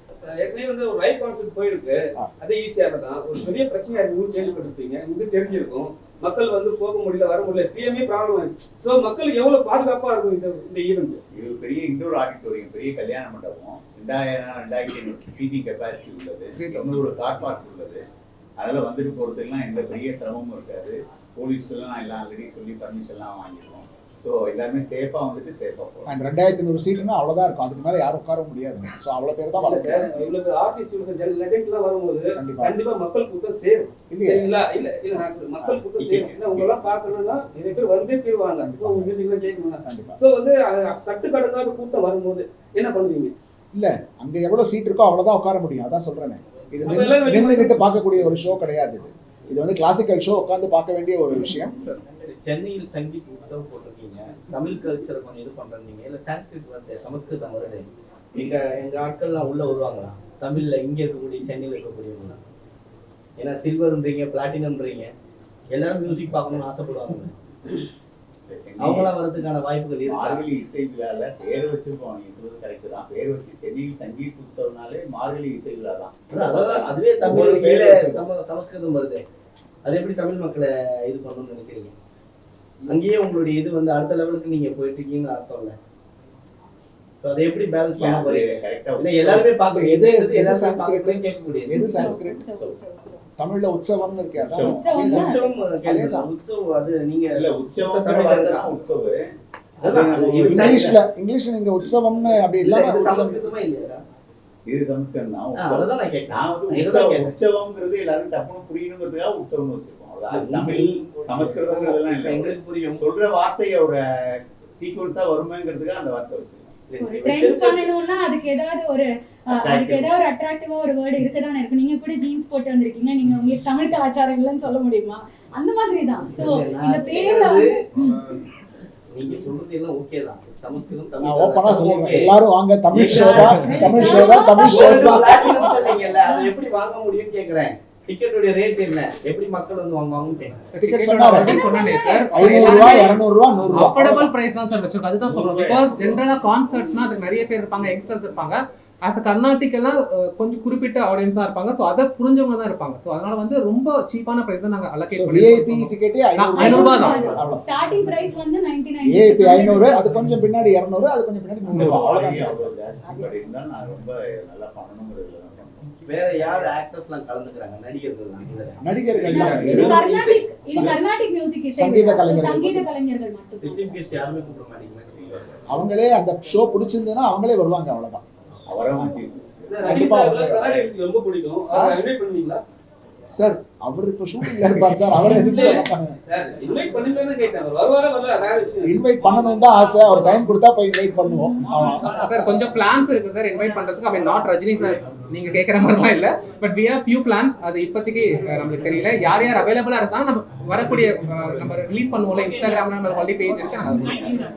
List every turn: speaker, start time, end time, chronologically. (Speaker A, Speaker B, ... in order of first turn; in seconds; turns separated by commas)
Speaker A: 0.2-11.2, Speaker B: 11.3-18.0, Speaker C: 16.6-17.1, Speaker B: 18.6-26.1, Speaker C: 26.1-30.3, Speaker A: 29.6-43.3, Speaker C: 32.4-32.8, Speaker C: 34.1-34.5, Speaker B: 35.6-36.8, Speaker C: 38.6-39.1, Speaker C: 39.9-40.2, Speaker C: 43.7-51.8, Speaker A: 46.9-47.8, Speaker D: 51.8-52.0, Speaker E: 52.2-62.4, Speaker E: 63.4-65.1, Speaker E: 65.7-67.3, Speaker B: 68.5-69.1, Speaker E: 68.8-70.5, Speaker B: 70.0-78.2, Speaker E: 76.3-79.2, Speaker C: 77.2-78.2, Speaker E: 79.8-82.0, Speaker E: 82.9-85.8, Speaker E: 87.2-91.8, Speaker B: 88.0-89.5, Speaker C: 89.7-92.4, Speaker F: 91.7-93.2, Speaker C: 93.4-96.3, Speaker B: 94.4-94.8, Speaker F: 94.6-95.5, Speaker E: 95.0-98.8, Speaker B: 97.3-99.2, Speaker B: 99.8-100.9, Speaker E: 99.8-101.0, Speaker C: 100.5-103.5, Speaker E: 102.4-104.0, Speaker B: 104.7-114.0, Speaker E: 105.5-107.4, Speaker E: 110.3-113.0, Speaker B: 114.8-116.8, Speaker E: 116.9-117.9, Speaker F: 117.0-128.3, Speaker B: 119.5-120.1, Speaker E: 126.3-127.8, Speaker E: 129.1-132.4, Speaker C: 131.2-135.4, Speaker E: 132.9-140.6, Speaker F: 133.8-135.3, Speaker D: 140.7-143.1, Speaker C: 140.8-141.7, Speaker F: 141.4-143.2, Speaker C: 142.3-144.3, Speaker D: 143.7-157.2, Speaker B: 145.2-146.2, Speaker C: 155.1-157.6, Speaker F: 156.6-160.1, Speaker B: 156.8-157.4, Speaker C: 159.1-162.6, Speaker B: 161.7-165.8, Speaker E: 166.1-170.4, Speaker C: 168.8-170.0, Speaker F: 169.3-174.0, Speaker D: 169.3-169.8, Speaker C: 170.7-171.1, Speaker C: 171.8-172.8, Speaker E: 173.6-175.1, Speaker B: 175.1-175.6, Speaker C: 175.7-178.2, Speaker B: 178.7-179.9, Speaker A: 179.8-182.6, Speaker C: 179.8-180.7, Speaker B: 180.6-180.9, Speaker C: 181.7-182.0, Speaker C: 183.3-186.1, Speaker A: 185.2-188.9, Speaker C: 188.8-192.2, Speaker D: 192.2-204.2